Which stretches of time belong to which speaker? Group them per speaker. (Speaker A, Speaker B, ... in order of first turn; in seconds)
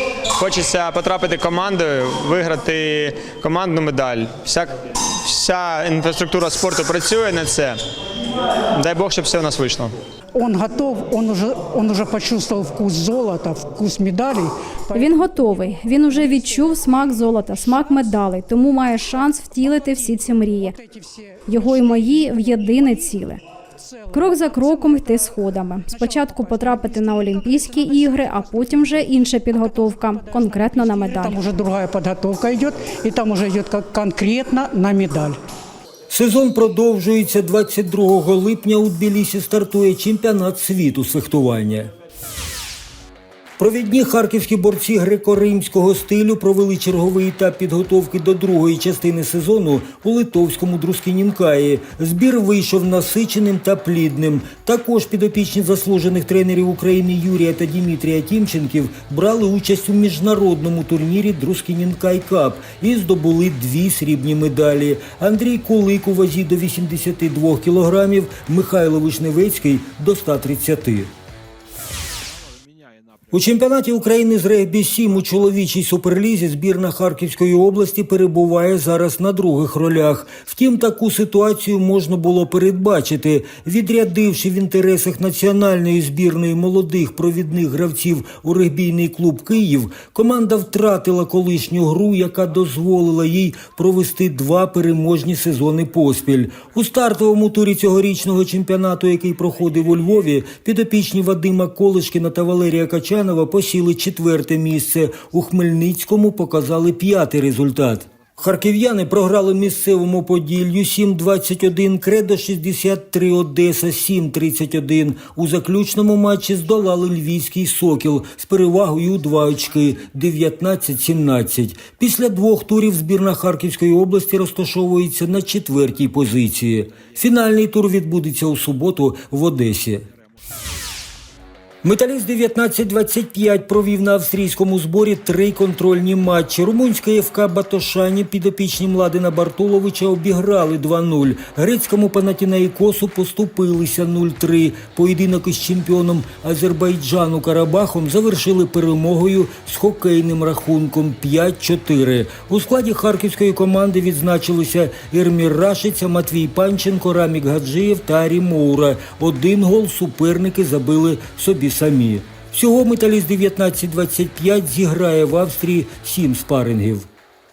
Speaker A: 0.4-7.8, 8.7-9.9
Speaker B: 10.3-16.9, 17.8-18.1, 19.6-23.2, 23.8-35.4
Speaker C: 14.9-20.8, 21.5-23.4, 24.1-31.4
Speaker D: 36.1-41.9, 43.6-71.1, 73.3-130.1, 131.8-167.1